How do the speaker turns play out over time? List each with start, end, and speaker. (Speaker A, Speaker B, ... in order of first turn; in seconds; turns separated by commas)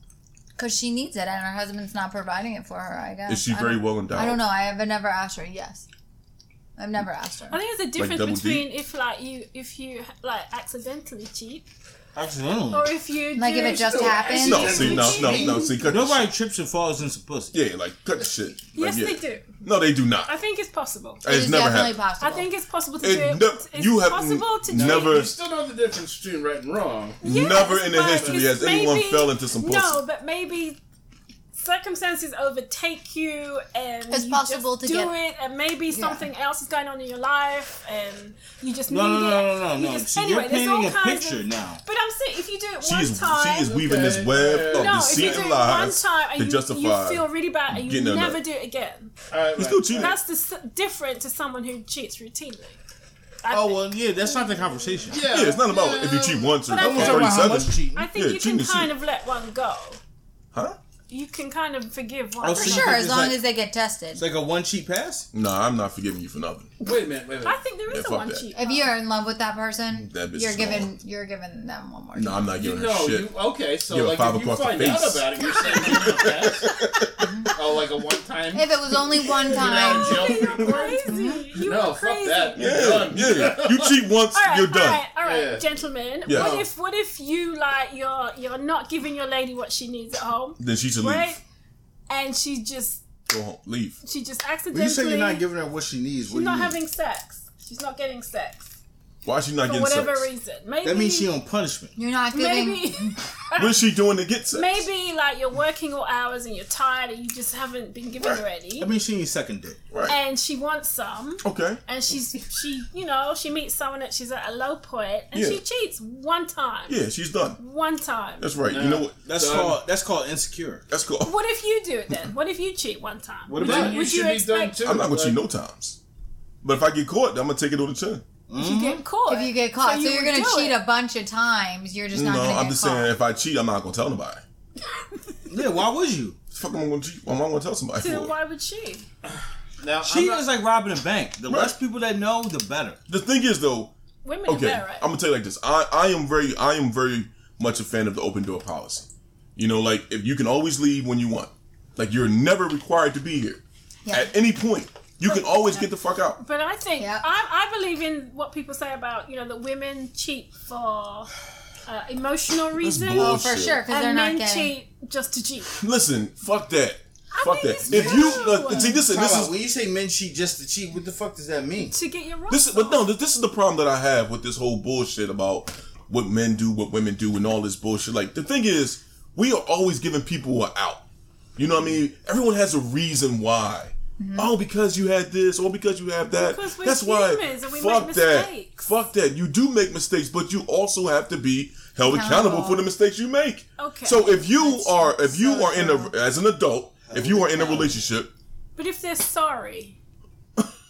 Speaker A: 0.6-5.8, Speaker B: 3.3-4.4, Speaker A: 6.8-7.6, Speaker C: 7.5-11.7, Speaker B: 8.0-8.7, Speaker D: 12.1-12.9, Speaker C: 12.7-15.8, Speaker A: 13.3-15.1, Speaker E: 13.6-15.9, Speaker B: 14.4-16.3, Speaker D: 15.9-17.6, Speaker B: 17.5-20.3, Speaker C: 18.7-19.6, Speaker C: 20.2-21.2, Speaker B: 21.2-22.0, Speaker A: 21.2-22.5, Speaker C: 22.2-25.1, Speaker B: 23.0-25.3, Speaker E: 24.7-27.2, Speaker B: 27.2-30.0, Speaker C: 27.2-30.8, Speaker E: 28.1-28.5, Speaker C: 31.5-43.7, Speaker A: 34.1-35.1, Speaker A: 35.9-36.3, Speaker D: 38.9-41.8, Speaker B: 42.8-48.4, Speaker E: 43.6-45.5, Speaker C: 44.7-49.1, Speaker E: 49.3-50.1, Speaker B: 49.5-50.1, Speaker C: 49.9-52.8, Speaker C: 53.4-55.2, Speaker D: 53.5-55.2, Speaker E: 55.1-57.1, Speaker B: 55.3-58.9, Speaker C: 56.7-60.0, Speaker D: 56.8-58.1, Speaker C: 61.1-63.0, Speaker D: 62.4-63.4, Speaker A: 62.5-64.2, Speaker D: 64.1-65.2, Speaker B: 65.3-66.7, Speaker E: 66.8-67.6, Speaker C: 66.8-68.9, Speaker B: 67.9-68.5, Speaker A: 68.5-72.4, Speaker B: 69.9-70.9, Speaker B: 72.1-73.3, Speaker E: 72.5-76.7, Speaker B: 73.9-77.5, Speaker C: 75.4-76.0, Speaker A: 77.2-77.5, Speaker E: 77.5-81.0, Speaker A: 78.5-81.5, Speaker C: 79.6-82.6, Speaker E: 81.6-84.0, Speaker B: 82.5-85.1, Speaker C: 84.3-91.4, Speaker E: 85.2-85.6, Speaker B: 86.3-86.6, Speaker E: 86.3-86.6, Speaker B: 90.6-91.4, Speaker C: 92.1-93.0, Speaker B: 93.3-94.0, Speaker C: 94.0-95.4, Speaker D: 94.7-96.8, Speaker C: 96.3-98.7, Speaker B: 99.2-100.3, Speaker C: 99.6-101.3, Speaker D: 100.8-101.9, Speaker A: 102.0-103.2, Speaker C: 102.3-103.8, Speaker B: 103.5-104.8, Speaker C: 104.5-108.9, Speaker D: 108.8-109.8, Speaker B: 109.9-110.2, Speaker C: 110.1-117.0, Speaker B: 111.4-111.8, Speaker B: 115.3-115.6, Speaker B: 116.9-117.6, Speaker C: 117.6-118.5, Speaker B: 118.4-119.7, Speaker E: 118.7-119.8, Speaker D: 119.2-120.8, Speaker B: 120.9-121.3, Speaker C: 121.2-124.8, Speaker D: 123.5-124.0, Speaker E: 123.6-125.4, Speaker B: 124.8-126.0, Speaker B: 126.6-128.2, Speaker D: 128.5-129.0, Speaker C: 128.6-130.8, Speaker A: 129.3-133.1, Speaker B: 132.1-134.4, Speaker C: 134.9-135.2, Speaker D: 135.5-136.4, Speaker B: 136.5-138.3, Speaker C: 138.0-139.1, Speaker E: 139.8-140.4, Speaker D: 140.0-143.0, Speaker B: 141.5-141.7, Speaker B: 143.1-143.9, Speaker C: 144.2-145.1, Speaker B: 144.4-156.4, Speaker A: 154.1-154.3, Speaker C: 155.2-161.3, Speaker A: 157.0-157.2, Speaker C: 161.8-165.8, Speaker B: 162.8-163.8, Speaker A: 163.1-164.7, Speaker B: 165.8-169.5, Speaker C: 167.3-169.0, Speaker D: 167.9-171.9, Speaker C: 171.9-173.1, Speaker B: 172.5-181.0, Speaker B: 181.6-198.3, Speaker A: 184.2-184.5, Speaker C: 186.3-188.9, Speaker A: 192.0-192.8, Speaker C: 193.8-194.4, Speaker A: 194.5-196.1, Speaker D: 197.1-198.0, Speaker C: 198.8-199.9